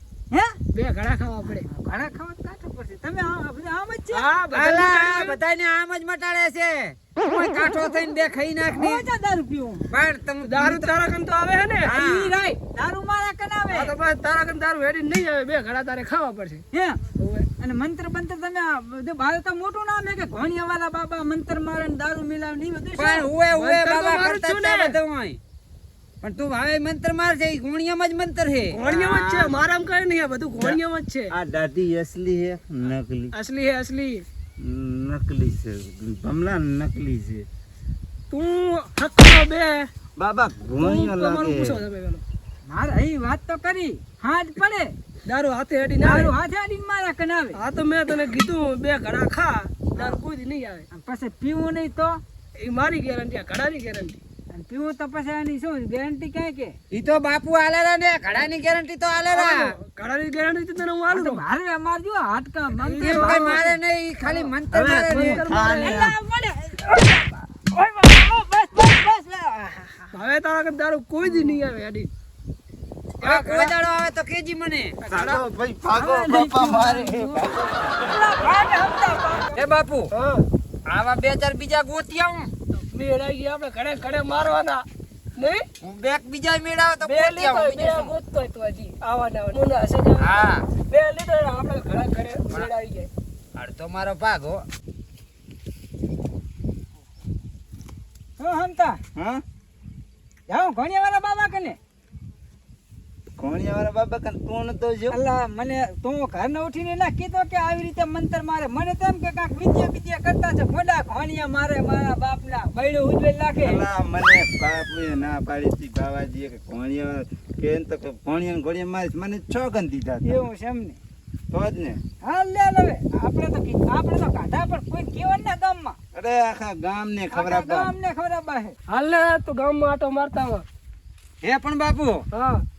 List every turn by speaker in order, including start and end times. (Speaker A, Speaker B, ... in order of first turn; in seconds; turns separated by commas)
Speaker A: 0.3-0.6, Speaker B: 0.7-1.6, Speaker A: 1.6-4.3, Speaker B: 4.1-5.4, Speaker C: 4.5-9.0, Speaker A: 8.7-9.8, Speaker C: 9.9-10.9, Speaker B: 10.4-11.9, Speaker C: 11.8-12.3, Speaker A: 12.0-13.9, Speaker B: 13.7-16.6, Speaker A: 16.7-17.0, Speaker B: 17.2-17.5, Speaker A: 17.6-23.3, Speaker C: 23.0-25.4, Speaker B: 23.5-24.9, Speaker C: 26.2-29.5, Speaker B: 28.7-31.3, Speaker D: 30.6-33.3, Speaker B: 33.3-34.2, Speaker D: 34.6-37.5, Speaker B: 38.3-39.9, Speaker D: 40.2-41.8, Speaker B: 40.8-42.2, Speaker A: 42.7-44.9, Speaker B: 45.2-46.3, Speaker A: 46.0-47.6, Speaker B: 47.5-50.9, Speaker A: 50.9-52.2, Speaker B: 52.6-54.2, Speaker A: 54.5-56.7, Speaker C: 56.9-59.6, Speaker B: 59.3-61.4, Speaker A: 61.1-63.6, Speaker B: 62.8-64.5, Speaker C: 63.0-65.3, Speaker D: 64.7-66.2, Speaker B: 65.1-66.0, Speaker A: 65.8-70.1, Speaker B: 70.1-72.1, Speaker B: 73.2-73.7, Speaker C: 73.2-75.0, Speaker B: 75.0-75.4, Speaker D: 75.1-78.1, Speaker A: 75.9-77.0, Speaker B: 76.7-77.5, Speaker A: 78.0-79.7, Speaker C: 79.5-80.1, Speaker B: 80.1-80.5, Speaker C: 80.9-82.5, Speaker B: 82.7-84.8, Speaker B: 85.4-85.6, Speaker C: 85.8-88.1, Speaker B: 87.0-93.1, Speaker C: 90.2-90.6, Speaker C: 93.5-94.6, Speaker A: 98.4-99.0, Speaker D: 99.1-99.4, Speaker A: 100.5-101.8, Speaker D: 103.4-105.2, Speaker A: 105.1-113.8, Speaker D: 113.6-120.3, Speaker A: 120.2-121.0, Speaker D: 121.5-122.0, Speaker A: 122.2-126.0, Speaker D: 126.1-127.9, Speaker A: 127.3-128.8, Speaker B: 128.9-130.6, Speaker C: 131.4-132.2, Speaker B: 132.3-132.6